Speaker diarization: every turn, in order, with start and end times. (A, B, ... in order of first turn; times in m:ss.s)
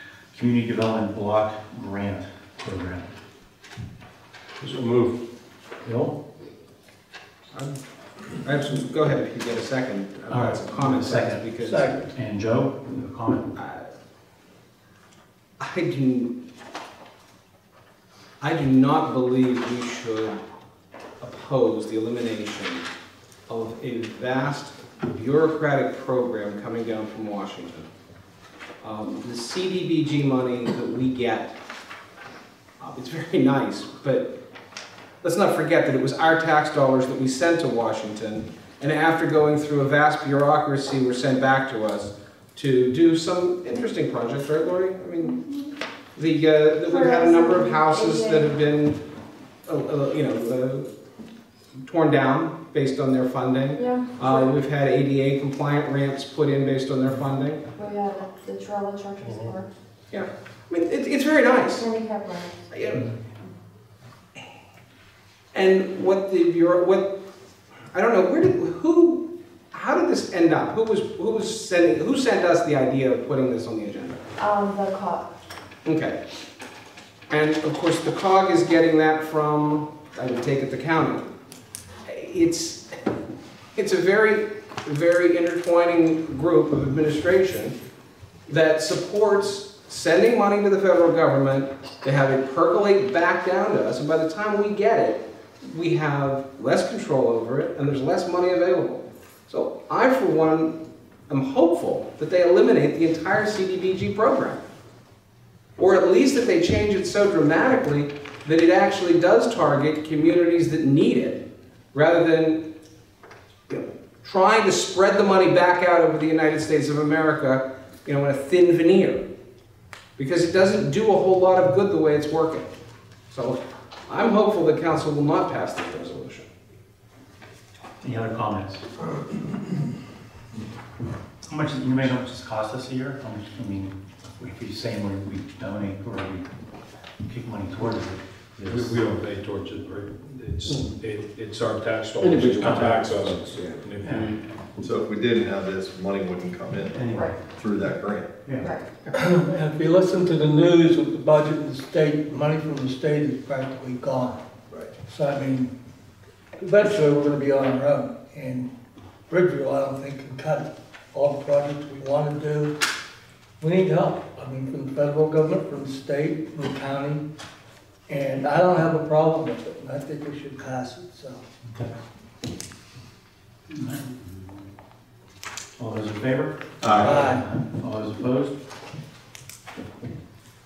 0:00.3-0:03.1 A
0:04.6-0:05.2 B
0:05.8-0:06.2 A
0:07.5-0:07.8 C
0:08.4-0:12.0 C
0:10.3-0:11.5 A
0:11.6-0:12.1 D
0:12.1-0:13.5 A
0:13.6-0:13.9 C
0:15.6-0:16.4 C
0:18.4-0:20.4 C
0:21.2-0:22.9 C
0:23.5-0:27.9 C
0:28.8-0:31.6 C
0:32.8-0:34.3 C
0:35.2-0:45.4 C
0:45.2-0:45.7 E
0:46.1-0:49.0 C
0:46.8-0:48.6 E
0:49.6-0:50.9 C
0:51.8-0:57.7 C
0:53.7-0:54.5 E
0:57.7-0:59.7 E
1:00.1-1:01.9 C
1:01.7-1:02.7 E
1:02.7-1:03.2 C
1:05.5-1:07.2 C
1:07.9-1:14.2 C
1:14.4-1:15.3 E
1:15.8-1:16.2 C
1:17.3-1:21.3 C
1:22.0-1:23.0 C
1:23.8-1:27.7 C
1:28.5-1:40.8 C
1:41.3-1:44.6 C
1:45.8-1:52.7 C
1:53.7-1:59.2 C
2:00.2-2:02.7 C
2:03.3-2:06.5 C
2:08.0-2:08.8 A
2:11.5-2:16.5 A
2:17.2-2:18.9 A
2:18.6-2:24.4 B
2:22.2-2:23.2 A
2:24.0-2:24.3 A
2:24.8-2:27.0 F
2:26.9-2:27.3 A
2:27.1-2:27.3 E
2:27.5-2:28.3 F
2:28.4-2:28.7 A
2:28.6-2:28.8 E
2:29.1-2:34.4 D
2:34.9-2:35.7 D
2:36.6-2:38.7 D
2:39.3-2:42.7 D
2:43.6-2:47.2 D
2:48.1-2:51.5 D
2:53.7-2:54.1 A
2:55.8-2:58.5 A
2:56.8-2:57.2 F
2:57.0-2:57.4 D